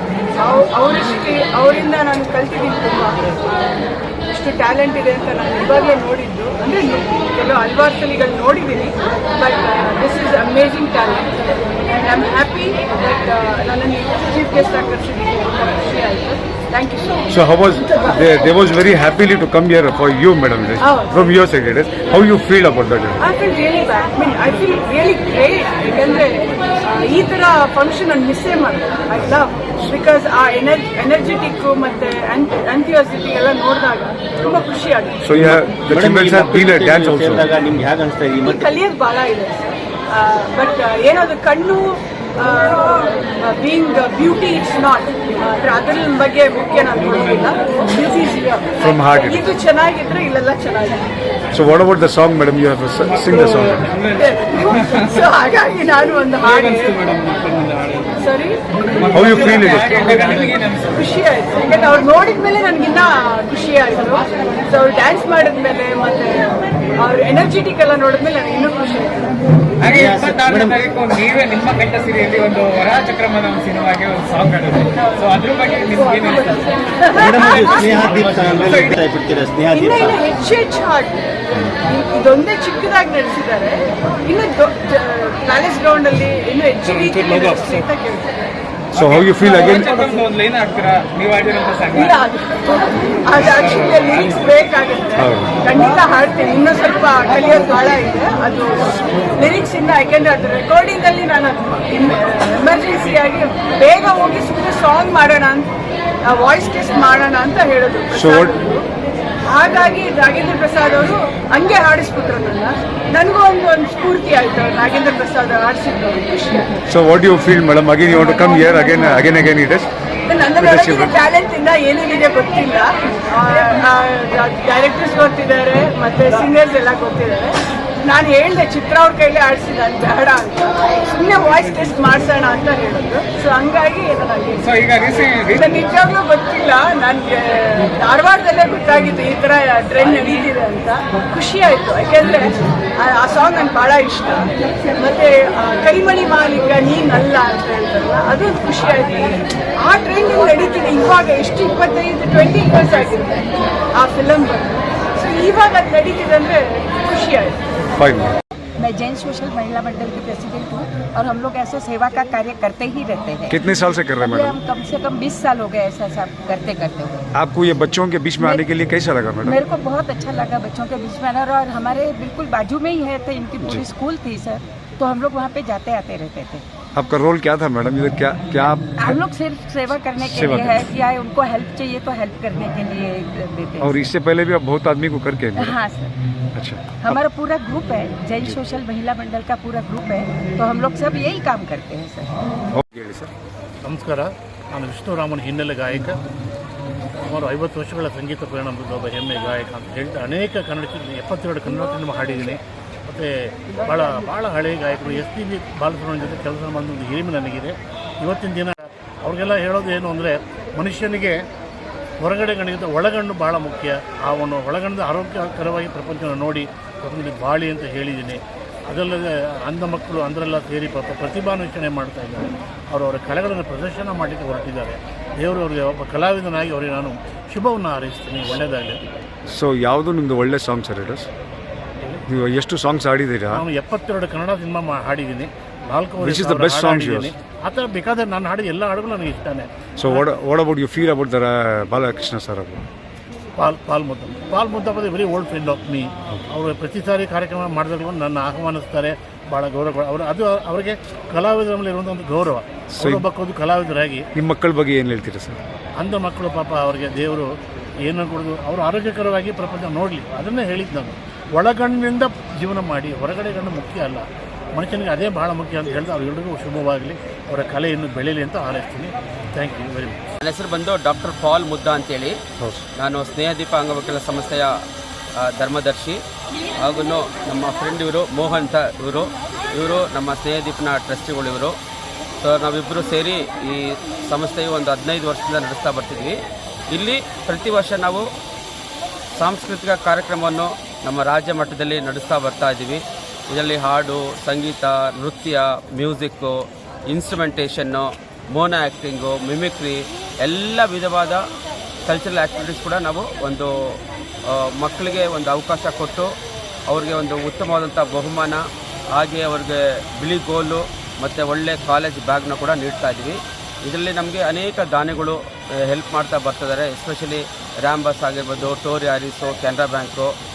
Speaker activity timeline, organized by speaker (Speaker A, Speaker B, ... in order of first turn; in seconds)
Speaker A: 0.4-11.4, 11.9-17.2, 20.8-21.4, 23.2-35.2, 38.4-51.1, 54.2-57.0, 58.2-58.6, 60.9-69.3, 77.0-77.9, 79.7-88.5, 91.9-105.7, 106.2-108.8, 109.5-116.8, 120.2-134.7, 135.5-157.6
Speaker B: 17.3-23.2, 35.2-37.5, 48.8-49.4, 51.5-53.8, 59.1-60.2, 89.0-90.1, 95.2-95.5, 108.1-108.6, 116.9-119.9, 120.6-121.1, 157.9-158.3, 163.5-164.6, 167.3-169.6, 176.9-179.2, 180.1-180.9, 183.8-185.8, 186.5-187.2, 192.7-193.3, 229.5-231.3, 232.3-233.6, 236.2-237.3, 240.0-242.8, 252.9-253.2, 254.3-255.6, 272.6-272.8
Speaker C: 35.3-38.8, 69.9-70.8, 77.2-80.2
Speaker D: 46.9-47.9, 53.0-55.5, 56.3-58.3, 58.9-61.2, 69.8-79.1, 86.8-87.9, 88.9-94.7, 134.6-135.9
Speaker E: 158.8-163.6, 164.2-167.2, 168.4-168.6, 169.4-176.6, 179.0-184.0, 185.6-186.1, 187.0-192.3
Speaker F: 193.8-196.2, 197.2-211.3, 212.2-229.0, 232.0-232.2, 233.5-240.2, 243.6-254.2, 256.0-257.5, 258.0-270.2
Speaker G: 270.4-272.3, 273.0-274.8, 275.4-276.2, 276.8-281.7, 282.4-286.4, 286.9-288.2, 289.4-301.4, 302.1-306.3, 306.9-320.3